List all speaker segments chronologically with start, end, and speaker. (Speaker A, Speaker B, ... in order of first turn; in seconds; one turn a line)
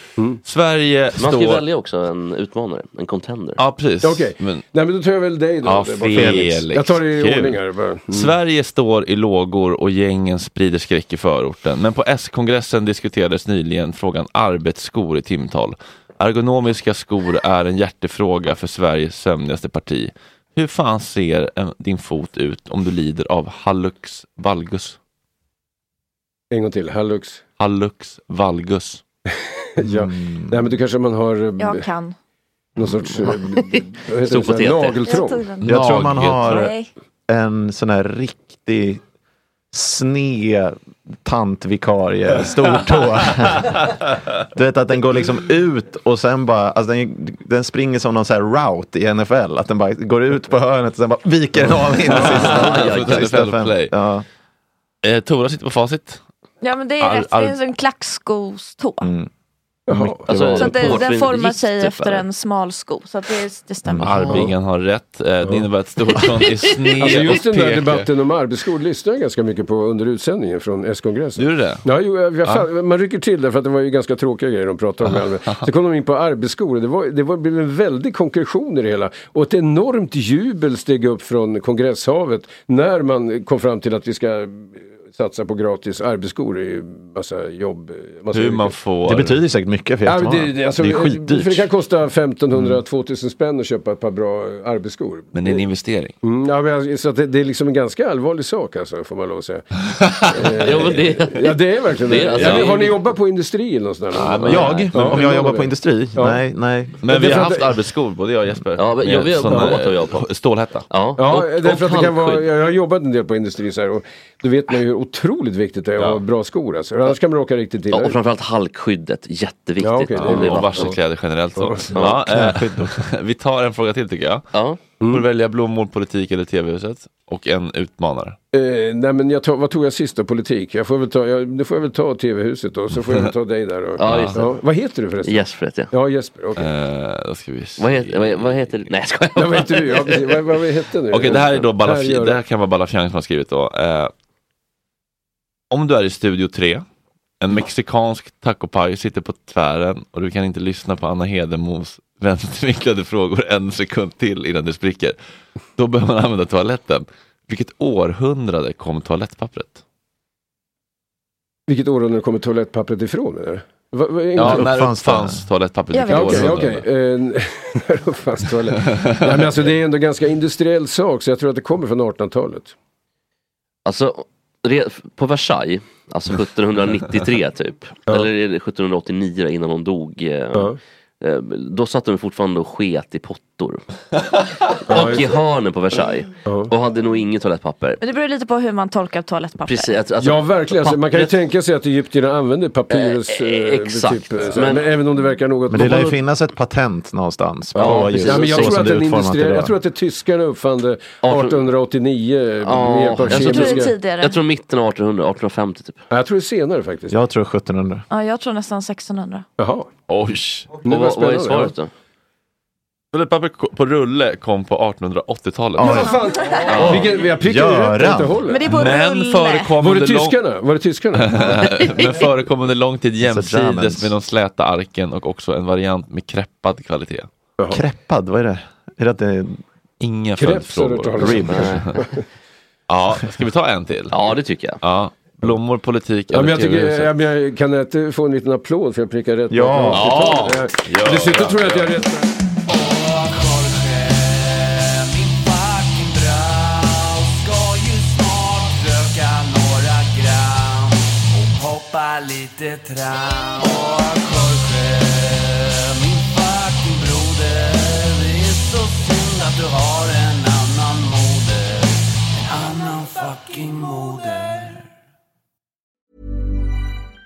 Speaker A: 0.4-1.6
Speaker B: 1.2-3.6
Speaker A: 3.5-4.7
Speaker C: 4.0-8.3
Speaker A: 5.6-7.6
Speaker D: 6.2-6.5
Speaker A: 8.1-25.0
Speaker C: 26.5-27.4
Speaker A: 27.6-29.0
Speaker C: 29.3-31.9
Speaker D: 29.8-30.6
Speaker E: 31.6-32.1
Speaker C: 32.8-35.4
Speaker B: 34.2-35.0
Speaker E: 35.1-36.9
Speaker A: 35.6-36.7
Speaker D: 35.6-36.7
Speaker D: 37.3-39.0
Speaker D: 39.7-43.8
Speaker D: 44.5-54.2
Speaker A: 52.1-53.9
Speaker B: 52.1-53.3
Speaker A: 55.0-56.2
Speaker E: 56.6-59.1
Speaker A: 57.0-57.6
Speaker D: 59.0-59.3
Speaker C: 59.9-61.0
Speaker B: 60.3-62.2
Speaker E: 60.5-64.5
Speaker D: 63.8-64.5
Speaker A: 64.0-68.1
Speaker C: 67.0-88.8
Speaker A: 71.3-71.8
Speaker A: 88.3-89.4
Speaker D: 89.0-91.6
Speaker C: 90.0-95.6
Speaker A: 95.3-96.2
Speaker C: 96.2-99.7
Speaker A: 99.9-100.3
Speaker C: 100.3-106.4
Speaker B: 100.6-103.0
Speaker A: 102.3-102.9
Speaker A: 104.1-105.3
Speaker B: 104.4-104.8
Speaker D: 104.4-107.3
Speaker A: 107.0-110.9
Speaker C: 107.1-107.7
Speaker B: 108.8-110.2
Speaker B: 110.9-112.5
Speaker C: 111.2-118.2
Speaker B: 117.9-120.9
Speaker C: 119.8-121.0
Speaker A: 120.1-124.5
Speaker C: 121.6-121.9
Speaker D: 122.2-123.0
Speaker B: 124.5-125.0
Speaker A: 125.0-128.4
Speaker C: 128.5-136.7
Speaker B: 134.0-134.5
Speaker A: 134.0-134.4
Speaker B: 135.2-135.9
Speaker A: 136.6-138.9
Speaker B: 137.8-140.3
Speaker C: 139.3-142.4
Speaker A: 141.1-144.1
Speaker A: 145.7-146.8
Speaker A: 147.4-155.2
Speaker A: 155.8-159.8
Speaker C: 161.7-164.7
Speaker A: 164.3-166.8
Speaker D: 164.4-165.4
Speaker E: 165.9-166.6
Speaker C: 166.1-172.7
Speaker A: 168.8-169.4
Speaker B: 173.8-183.8
Speaker B: 184.9-188.0
Speaker C: 184.9-185.3
Speaker C: 186.4-186.7
Speaker E: 188.0-189.9
Speaker B: 189.7-191.3
Speaker C: 190.2-196.2
Speaker B: 192.9-194.9
Speaker D: 195.7-199.7
Speaker B: 197.8-198.8
Speaker C: 197.8-203.9
Speaker B: 201.2-201.6
Speaker B: 202.6-206.0
Speaker E: 203.3-204.4
Speaker C: 206.1-207.2
Speaker D: 207.1-208.0
Speaker E: 208.1-209.4
Speaker C: 209.6-209.9
Speaker A: 210.1-210.7
Speaker C: 210.7-211.7
Speaker B: 210.8-211.9
Speaker A: 213.1-216.0
Speaker D: 215.8-218.4
Speaker C: 215.8-218.7
Speaker E: 215.9-216.7
Speaker A: 216.7-217.1
Speaker E: 218.5-219.8
Speaker A: 218.7-220.4
Speaker C: 219.8-221.5
Speaker A: 221.1-227.3
Speaker D: 223.2-224.1
Speaker D: 227.7-229.6
Speaker A: 230.0-232.0
Speaker C: 230.4-232.2
Speaker D: 231.2-231.7
Speaker B: 231.5-231.9
Speaker A: 232.9-237.1
Speaker B: 234.1-234.8
Speaker C: 236.3-242.2
Speaker D: 239.5-240.4
Speaker A: 239.9-241.9
Speaker F: 242.7-264.8